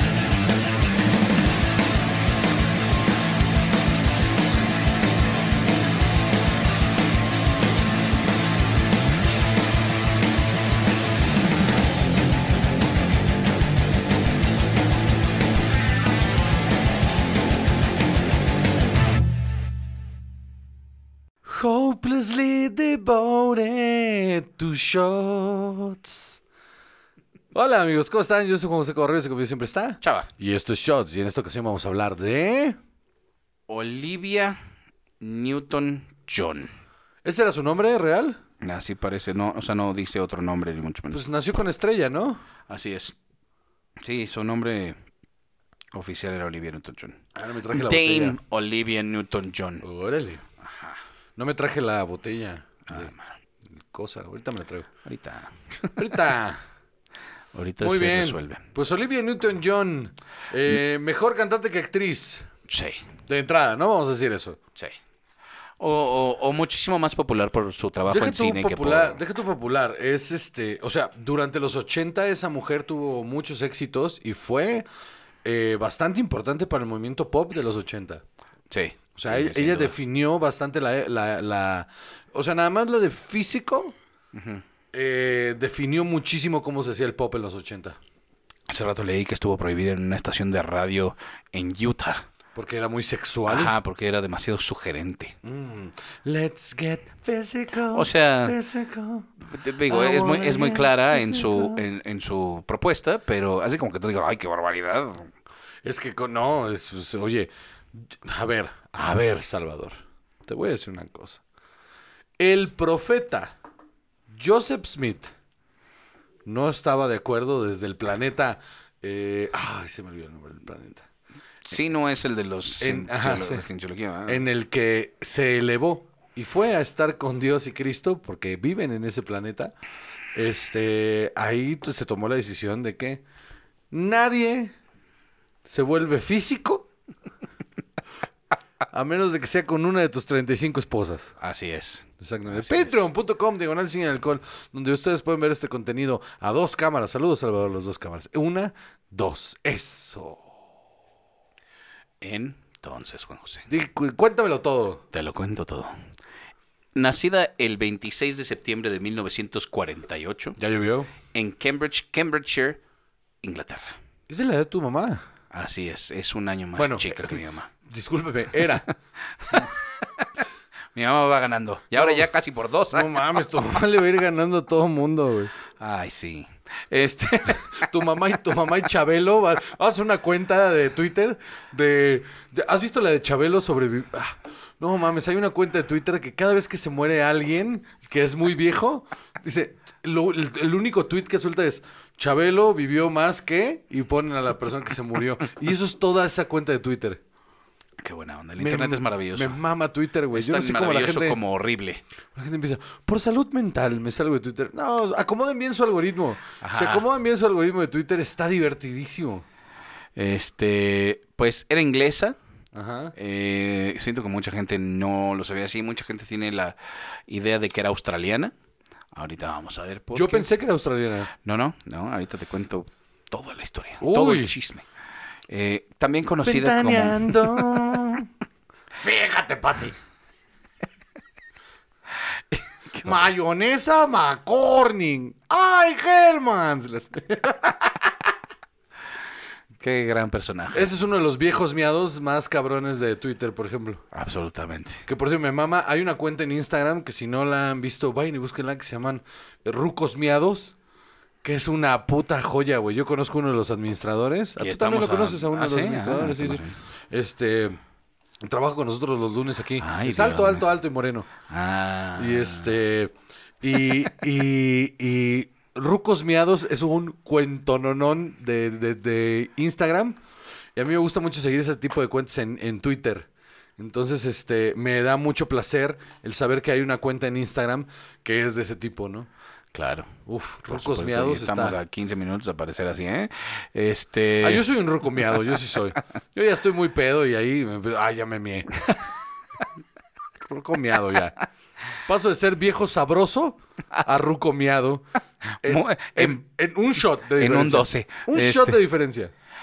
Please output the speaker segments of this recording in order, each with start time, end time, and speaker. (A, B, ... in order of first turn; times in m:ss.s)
0:21.4-0:26.4 A
0:27.5-0:32.8 A
0:30.0-0:30.3 B
0:33.7-0:34.6 B
0:35.2-0:36.7 B
0:37.2-0:38.4 A
0:38.6-0:41.2 B
0:41.1-0:42.4 A
0:42.7-0:43.2 B
0:44.0-0:44.9 B
0:45.9-0:47.2 B
0:47.3-0:48.4 A
0:47.7-0:49.8 B
0:49.8-0:50.4 A
0:50.6-0:51.0 B
0:51.4-0:53.1 A
0:52.9-0:53.4 B
0:53.7-0:54.9 A
0:55.0-0:56.1 B
0:56.0-0:56.6 A
0:57.5-0:58.6 B
0:57.8-1:02.5 A
1:02.7-1:03.0 B
1:03.3-1:04.6 A
1:05.8-1:09.2 B
1:08.1-1:14.8 A
1:15.4-1:18.2 A
1:18.7-1:19.9 B
1:19.1-1:23.9 A
1:24.3-1:24.6 B
1:24.9-1:28.0 A
1:28.7-1:32.3 B
1:32.5-1:33.7 A
1:33.5-1:35.4 B
1:35.4-1:39.3 A
1:37.9-1:38.6 B
1:39.5-1:45.3 B
1:39.8-1:41.8 A
1:45.8-1:51.4 A
1:52.4-1:53.5 A
1:54.3-1:55.3 A
1:56.4-2:01.1 A
2:01.7-2:04.4 B
2:02.8-2:03.6 A
2:04.3-2:09.7 A
2:10.3-2:13.2 A
2:13.9-2:14.7 A
2:15.6-2:16.9 A
2:18.9-2:21.3 A
2:21.4-2:23.0 B
2:22.2-2:30.5 A
2:32.2-2:33.7 B
2:33.7-2:35.0 A
2:35.1-2:35.9 B
2:36.9-2:40.6 B
2:40.6-2:41.1 A
2:41.3-2:42.8 B
2:43.4-2:44.0 B
2:44.3-2:45.2 A
2:45.5-2:47.7 B
2:46.8-2:48.9 A
2:49.4-2:50.3 B
2:50.9-2:53.2 B
2:52.0-2:52.3 A
2:52.9-2:55.5 A
2:55.8-2:57.9 B
2:57.5-3:17.2 A
3:18.0-3:19.6 B
3:18.6-3:21.4 A
3:20.3-3:22.0 B
3:22.3-3:29.4 A
3:26.6-3:27.0 B
3:30.2-3:32.4 B
3:32.7-3:33.1 A
3:33.1-3:36.7 B
3:37.3-3:38.5 B
3:39.1-3:40.5 B
3:40.1-3:41.3 A
3:41.4-3:44.8 B
3:44.0-3:44.5 A
3:45.5-3:47.9 B
3:46.4-3:48.3 A
3:48.9-3:50.0 A
3:52.9-3:53.2 B
3:53.0-3:58.1 A
3:59.8-4:00.9 B
4:00.7-4:04.0 A
4:04.1-4:05.0 B
4:05.0-4:10.7 A
4:11.4-4:17.8 A
4:14.6-4:16.7 B
4:18.4-4:21.3 A
4:19.8-4:20.6 B
4:21.5-4:22.7 B
4:22.2-4:30.2 A
4:30.8-4:39.3 A
4:39.7-4:40.1 B
4:40.2-4:41.8 A
4:40.7-4:44.6 B
4:44.4-4:48.8 A
4:50.4-4:51.4 A
4:52.0-4:55.0 A
4:55.6-4:56.4 B
4:55.6-4:59.3 A
4:57.4-4:58.8 B